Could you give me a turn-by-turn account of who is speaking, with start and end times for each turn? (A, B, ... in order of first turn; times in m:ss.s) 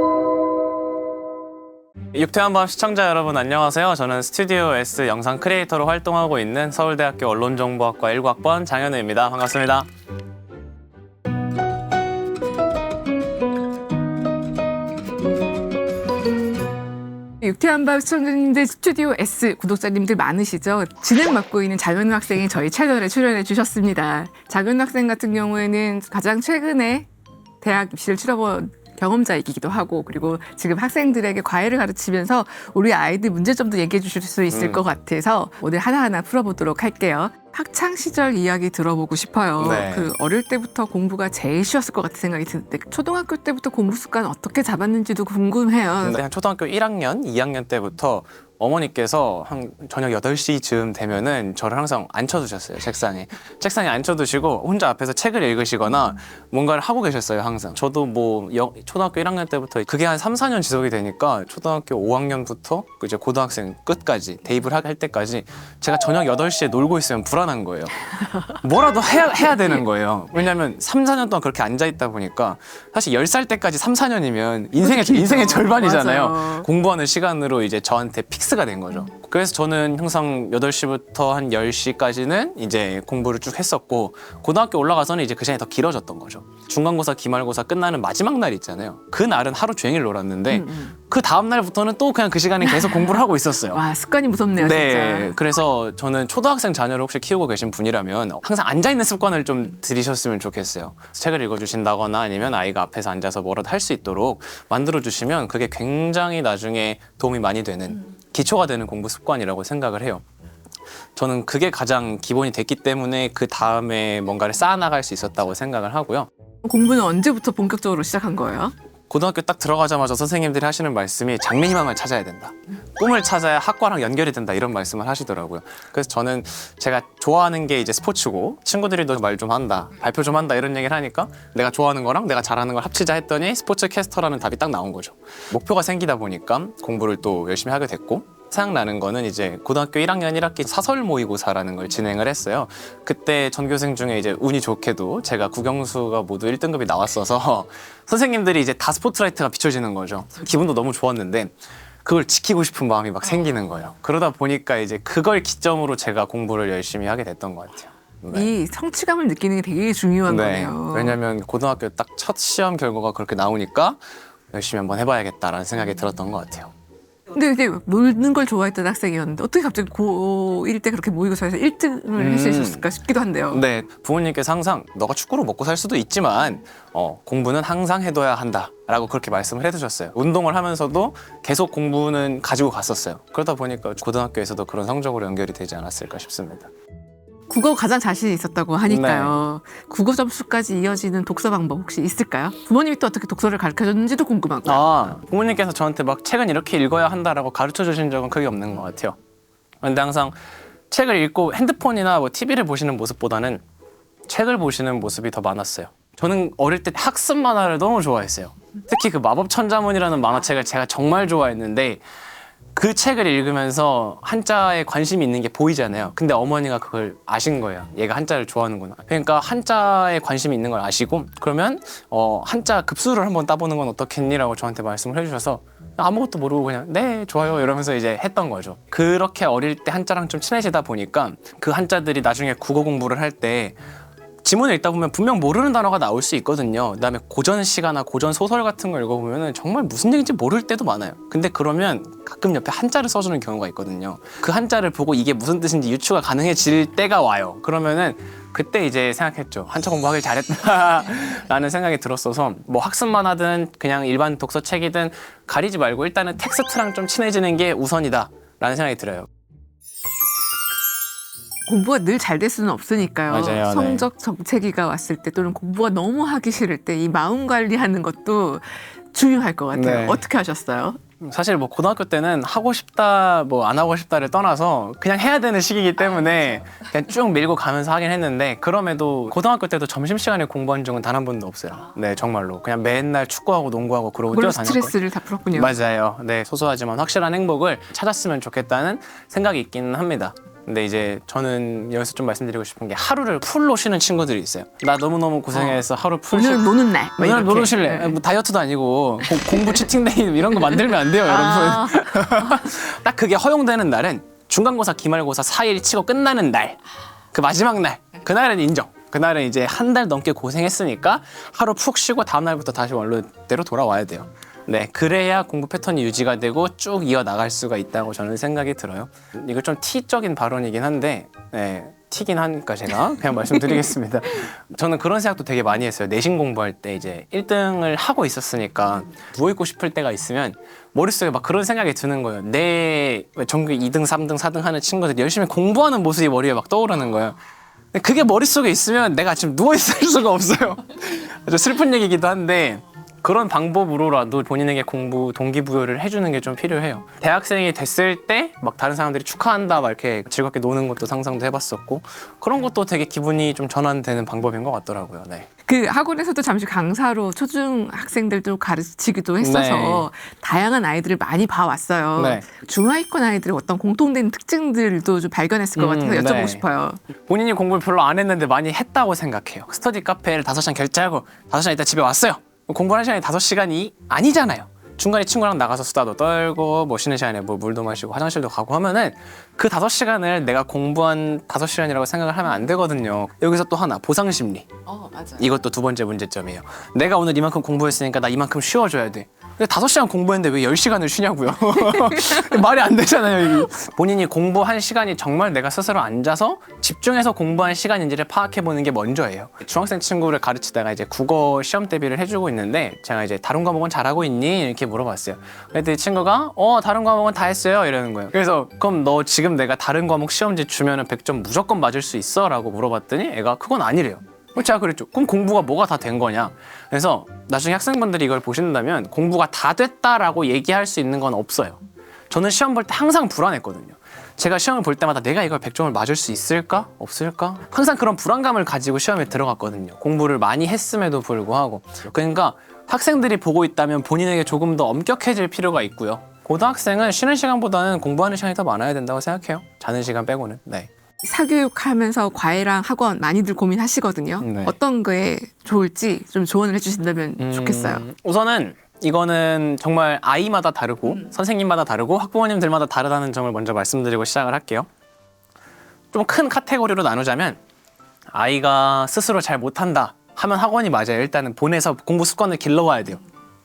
0:02.1-0:09.9 A
0:17.4-0:27.1 B
0:27.6-0:46.2 B
0:34.5-0:34.8 A
0:39.6-0:40.1 A
0:46.0-1:33.8 A
1:14.8-1:16.7 B
1:30.5-1:31.0 B
1:32.6-1:33.1 B
1:33.7-1:35.4 B
1:34.6-1:50.2 A
1:51.2-1:56.3 A
1:56.6-1:58.7 B
1:59.1-2:38.5 A
2:38.3-2:41.2 B
2:40.3-2:44.0 A
2:44.5-2:46.7 A
2:47.3-2:53.6 B
2:52.2-2:52.8 A
2:53.5-3:06.7 A
3:07.5-3:15.1 B
3:08.9-3:09.4 A
3:14.6-3:19.2 A
3:19.8-3:20.4 A
3:20.9-3:23.6 A
3:24.3-3:32.0 A
3:32.8-3:53.8 A
3:54.4-4:19.3 A
4:21.7-4:31.0 B
4:23.3-4:24.1 A
4:29.7-4:30.2 A
4:31.2-4:44.9 A
4:44.3-4:45.7 B
4:45.6-5:06.8 A
4:55.5-4:58.2 B
5:01.2-5:02.3 B
5:07.3-5:37.4 A
5:37.9-5:55.5 A
5:55.7-6:07.0 B
5:59.4-6:00.1 A
6:02.2-6:02.5 A
6:05.8-6:06.6 A
6:07.3-6:24.7 A
6:24.9-6:25.4 B
6:25.4-7:20.9 A
6:31.9-6:32.3 B
7:21.2-7:28.0 B
7:24.4-7:24.8 A
7:27.4-7:34.9 A
7:36.1-7:37.6 A
7:38.3-7:43.2 A